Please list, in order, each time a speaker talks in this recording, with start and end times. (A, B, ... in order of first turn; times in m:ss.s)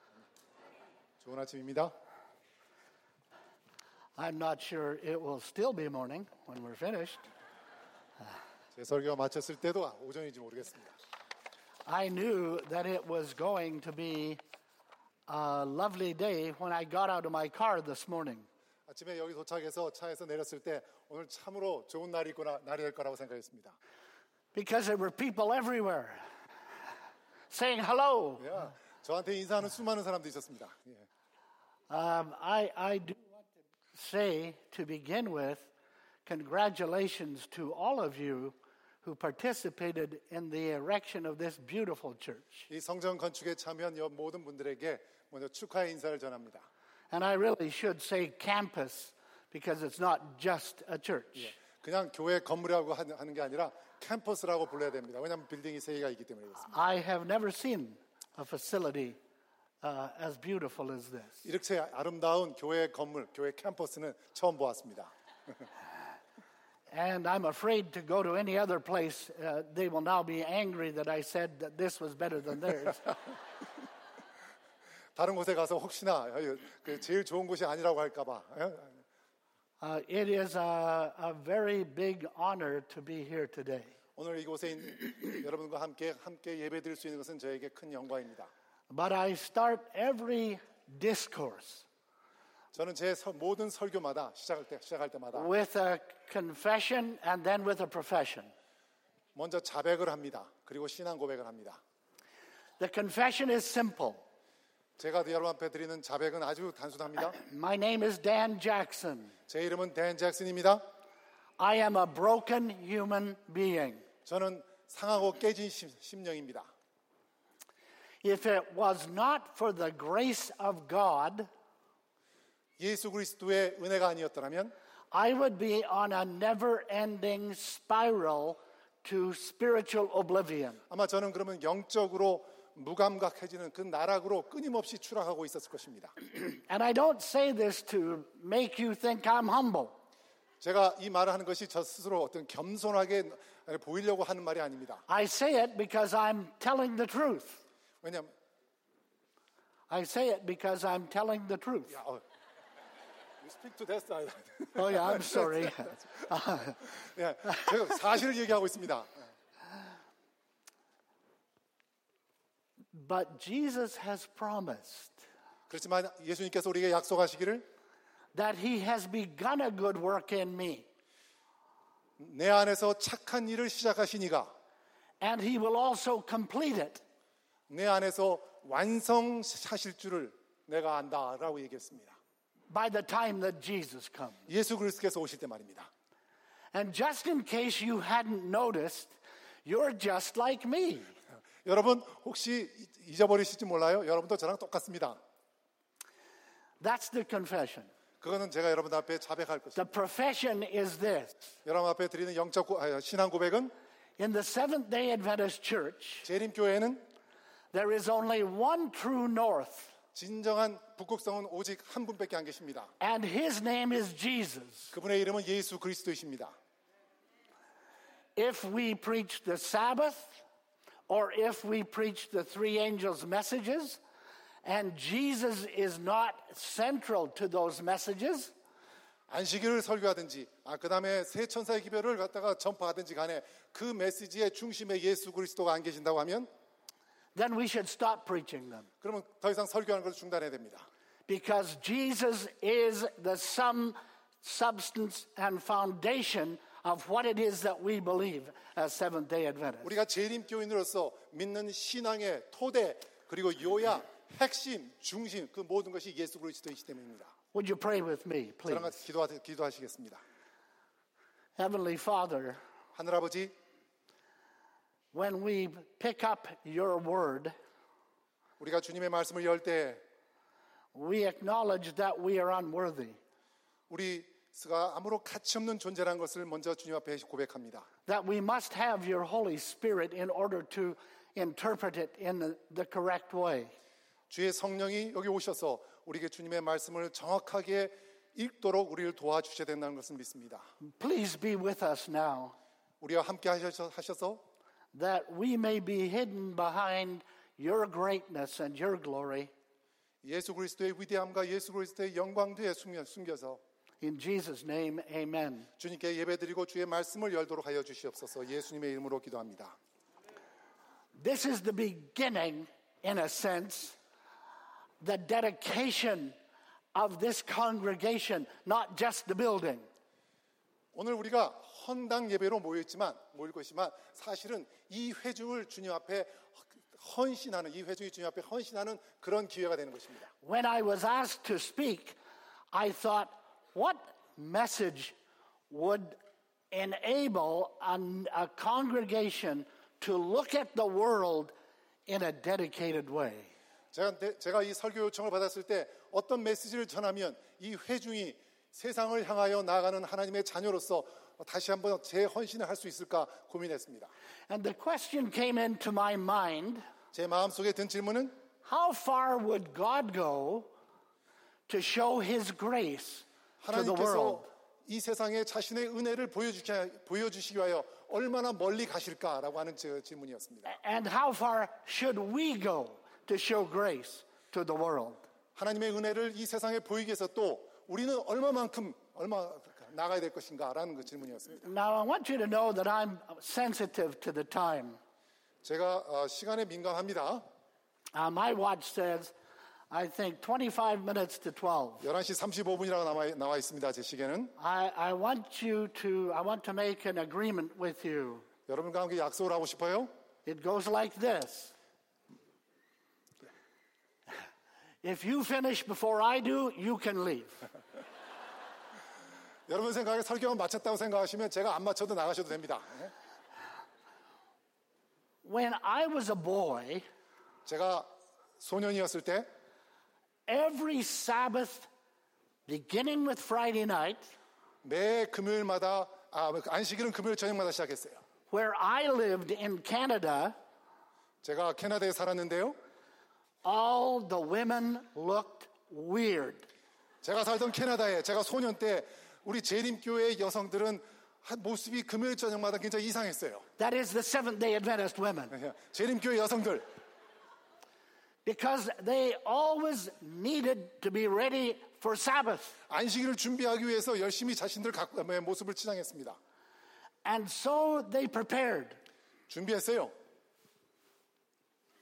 0:01.2-0:01.9 A
0:04.2-0:07.2 B
0:08.8-0:11.0 A
0:11.9-0:14.4 B
0:15.3-0:18.5 B
0:18.9-0:23.8 A
0:24.5-0:26.2 B
0:27.5-0:28.5 B
0:28.4-0:31.0 A
0:31.9-0:35.7 B
0:36.3-0:42.7 B
0:42.7-0:46.7 A
0:47.1-0:51.5 B
0:51.4-0:56.8 A
0:56.7-0:59.2 B
0:59.8-1:01.4 B
1:01.4-1:05.1 A
1:06.9-1:13.2 B
1:15.2-1:19.0 A
1:19.8-1:23.9 B
1:24.2-1:28.5 A
1:28.9-1:31.9 B
1:32.7-1:35.5 A
1:35.3-1:38.5 B
1:39.3-1:41.8 A
1:42.8-1:44.2 B
1:45.0-1:47.4 A
1:47.3-1:49.3 B
1:49.5-1:50.8 A
1:51.6-1:54.0 B
1:54.2-1:56.7 A
1:58.2-2:01.5 B
2:02.8-2:04.7 A
2:05.1-2:10.8 B
2:10.9-2:16.1 A
2:16.3-2:20.0 B
2:20.6-2:25.0 A
2:25.1-2:27.6 B
2:28.0-2:28.3 A
2:29.9-2:32.0 B
2:31.9-2:32.2 A
2:33.4-2:36.0 A
2:34.8-2:36.8 B
2:36.9-2:39.1 A
2:42.9-2:45.2 B
2:45.7-2:47.6 A
2:48.3-2:50.9 B
2:52.2-2:54.5 A
2:55.2-2:57.0 B
2:57.7-3:02.2 A
3:02.7-3:04.4 B
3:04.5-3:05.9 A
3:06.7-3:11.1 B
3:11.6-3:15.2 A
3:16.8-3:17.9 B
3:18.2-3:19.9 A
3:19.8-3:21.3 B
3:21.6-3:23.7 A
3:24.2-3:26.3 B
3:26.2-3:27.0 A
3:27.7-3:29.9 B
3:30.1-3:32.9 A
3:33.0-3:34.9 B
3:34.9-3:36.5 A
3:38.4-3:40.4 B
3:41.1-3:44.0 B
3:44.6-3:48.5 B
3:49.3-3:56.5 A
3:57.4-3:58.9 B
3:59.0-4:00.9 A
4:01.3-4:09.9 B
4:09.8-4:17.3 A
4:17.5-4:19.0 B
4:18.7-4:20.2 A
4:21.6-4:22.6 B
4:22.9-4:23.5 A
4:25.1-4:27.5 B
4:28.6-4:30.0 A
4:30.9-4:33.2 B
4:33.9-4:37.9 A
4:38.1-4:43.7 B
4:44.3-4:50.6 A
4:50.8-4:52.6 B
4:53.0-4:54.4 A
4:54.9-4:59.5 B
5:00.2-5:03.6 A
5:04.0-5:05.7 B
5:05.8-5:09.8 A
5:11.1-5:14.0 B
5:15.0-5:16.4 B
5:16.9-5:19.9 B
5:20.9-5:30.3 A
5:30.4-5:32.2 B
5:32.7-5:35.1 B
5:35.7-5:36.2 B
5:36.7-5:41.5 B
5:42.1-5:43.5 B
5:43.9-5:54.1 A
5:54.5-5:56.8 B
5:57.1-5:58.3 A
5:58.6-6:00.7 B
6:01.7-6:04.5 B
6:03.6-6:10.7 A
6:10.6-6:15.2 B
6:15.6-6:21.7 A
6:21.6-6:25.0 B
6:25.6-6:27.4 A
6:28.1-6:29.3 B
6:29.9-6:32.0 B
6:32.0-6:34.5 A
6:34.6-6:38.4 B
6:38.7-6:40.1 A
6:40.4-6:41.7 B
6:45.0-6:47.6 B
6:49.7-6:53.1 A
6:55.4-6:57.0 B
6:57.6-6:58.1 A
6:58.6-6:59.4 A
7:00.5-7:01.9 B
7:02.7-7:04.3 B
7:04.8-7:08.2 A
7:08.5-7:10.5 B
7:11.4-7:12.8 A
7:13.6-7:16.6 B
7:17.2-7:23.6 A
7:23.8-7:25.5 B
7:25.5-7:26.8 A
7:28.4-7:32.8 B
7:32.9-7:36.4 A
7:37.2-7:39.0 B
7:39.5-7:40.1 A